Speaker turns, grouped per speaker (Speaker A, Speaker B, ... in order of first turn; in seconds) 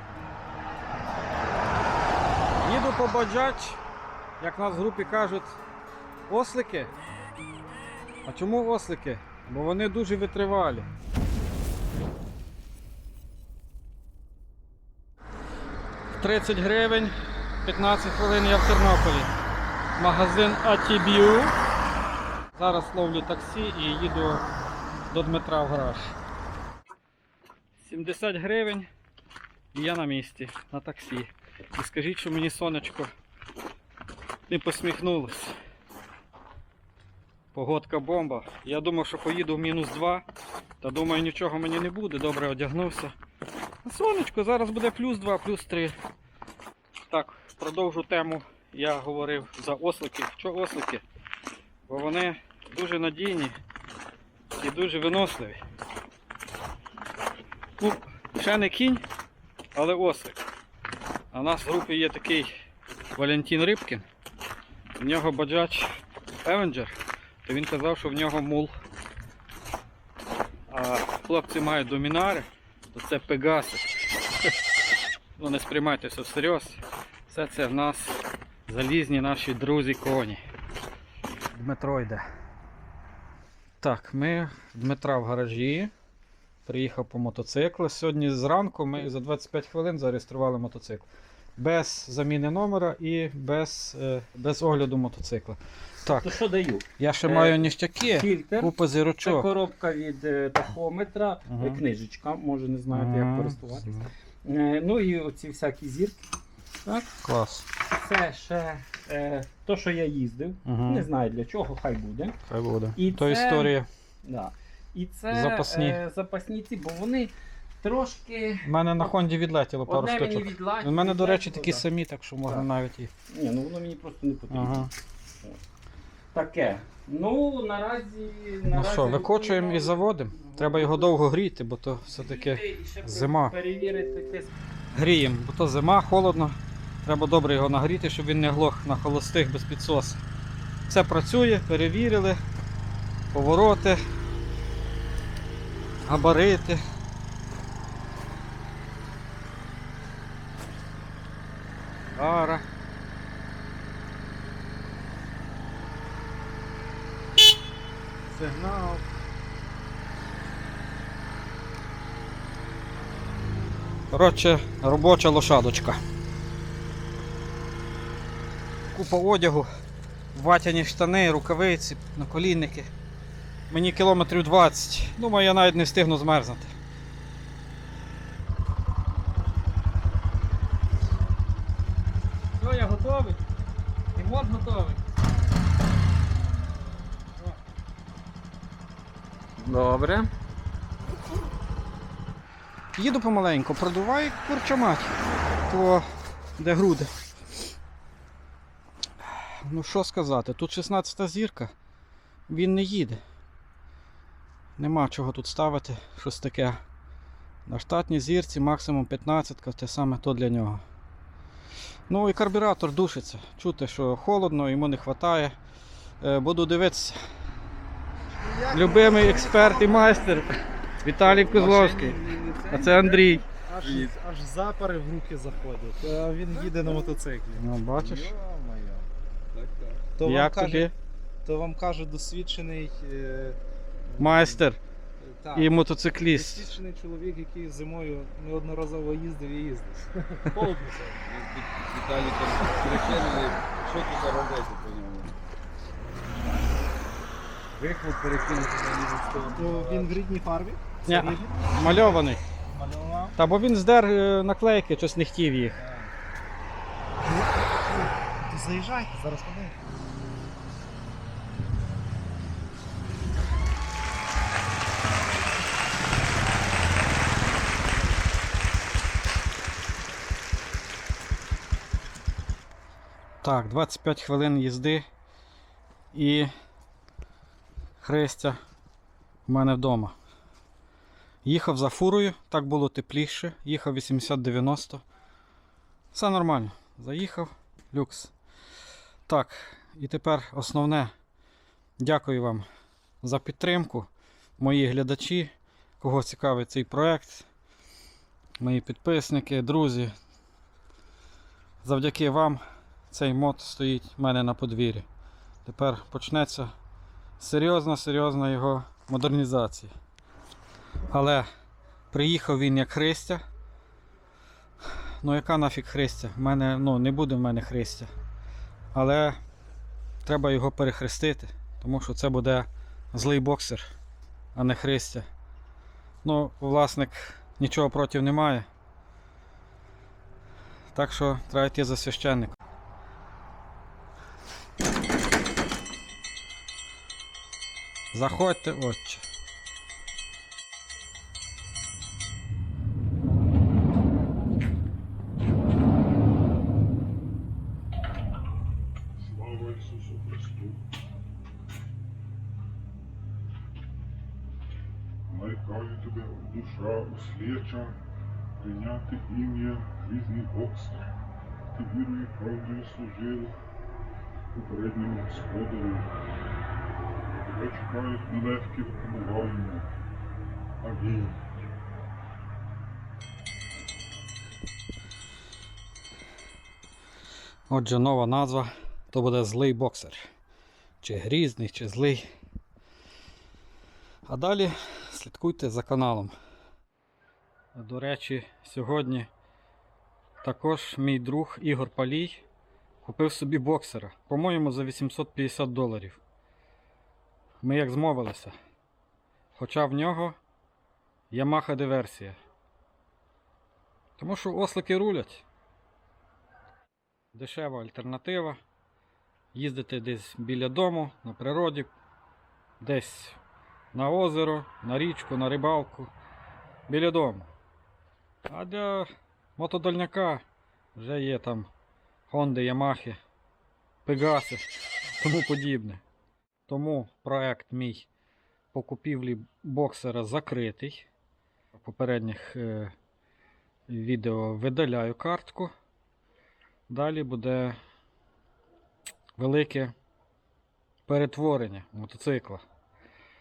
Speaker A: 2.6-3.8, 4.4-5.6, 6.3-6.9, 8.2-10.9, 16.2-19.3, 20.0-21.6, 22.6-24.4, 25.1-26.1, 27.8-28.9, 29.7-33.1, 34.5-35.6, 37.5-40.2, 40.8-43.1, 43.8-46.0, 47.1-51.0, 51.9-53.6, 54.5-55.6, 57.8-59.0, 59.8-60.4, 61.3-62.5, 63.1-64.1, 65.0-66.9, 67.5-68.7, 70.7-73.9, 75.4-80.4, 81.5-82.2, 83.8-85.9, 86.7-96.3, 97.0-99.5, 101.5-101.8, 102.9-104.1, 107.2-107.7, 110.7-111.1, 112.5-113.9, 115.3-116.0, 118.6-123.1, 124.5-124.9, 128.7-133.6, 134.9-140.2, 140.9-142.4, 143.3-144.0, 146.1-146.8, 152.2-152.6, 158.3-159.0, 164.1-166.0, 168.9-169.7, 170.3-172.9, 173.7-176.7, 182.6-183.4, 184.2-185.0, 192.9-197.1, 199.2-201.7, 202.5-203.2, 204.8-206.8, 207.7-210.8, 212.1-215.6, 216.2-217.2, 218.7-223.4, 227.6-228.3, 230.2-230.9, 234.2-234.8, 235.5-236.7, 251.1-252.4, 253.4-255.8, 273.4-275.0, 276.1-276.5, 278.0-278.6, 279.5-280.1, 281.4-285.0, 286.1-288.3, 289.3-291.1, 292.0-292.7, 293.2-297.5, 298.6-300.1, 301.8-305.1, 305.6-306.7, 307.4-309.9, 311.1-311.5, 312.1-313.4, 315.2-318.1, 318.9-319.4, 320.2-323.9, 324.6-325.3, 326.2-328.7, 330.9-332.6, 338.1-339.2, 377.7-380.2, 381.0-382.3, 384.3-386.4, 387.8-389.3, 390.4-392.4, 393.0-396.2, 397.6-398.5, 399.6-400.4, 401.3-402.4, 404.2-405.4, 407.3-408.6, 409.5-411.9, 412.8-413.4, 413.9-416.1, 416.9-417.5, 418.5-420.4, 420.9-421.7, 422.3-423.2, 424.1-426.0, 426.7-428.1, 428.7-431.1, 431.8-432.9, 433.9-435.7, 436.9-437.8, 439.4-439.9, 441.1-442.6
Speaker B: 96.0-103.9, 104.5-106.2, 107.9-112.4, 113.0-118.7, 119.9-121.9, 123.3-124.9, 126.3-131.1, 132.1-134.5, 189.6-190.3
Speaker C: 218.3-220.2, 221.5-227.7, 230.2-230.9, 231.4-233.6, 234.2-234.6, 235.2-240.8, 249.5-253.3, 257.2-259.8, 349.2-350.7, 364.6-365.3
Speaker D: 221.3-222.8, 223.8-224.1, 228.0-230.1, 240.5-245.4, 247.8-250.2
Speaker E: 349.4-350.8, 355.3-358.0, 358.6-361.1, 361.7-363.6, 364.8-366.1, 367.4-369.9, 370.8-371.5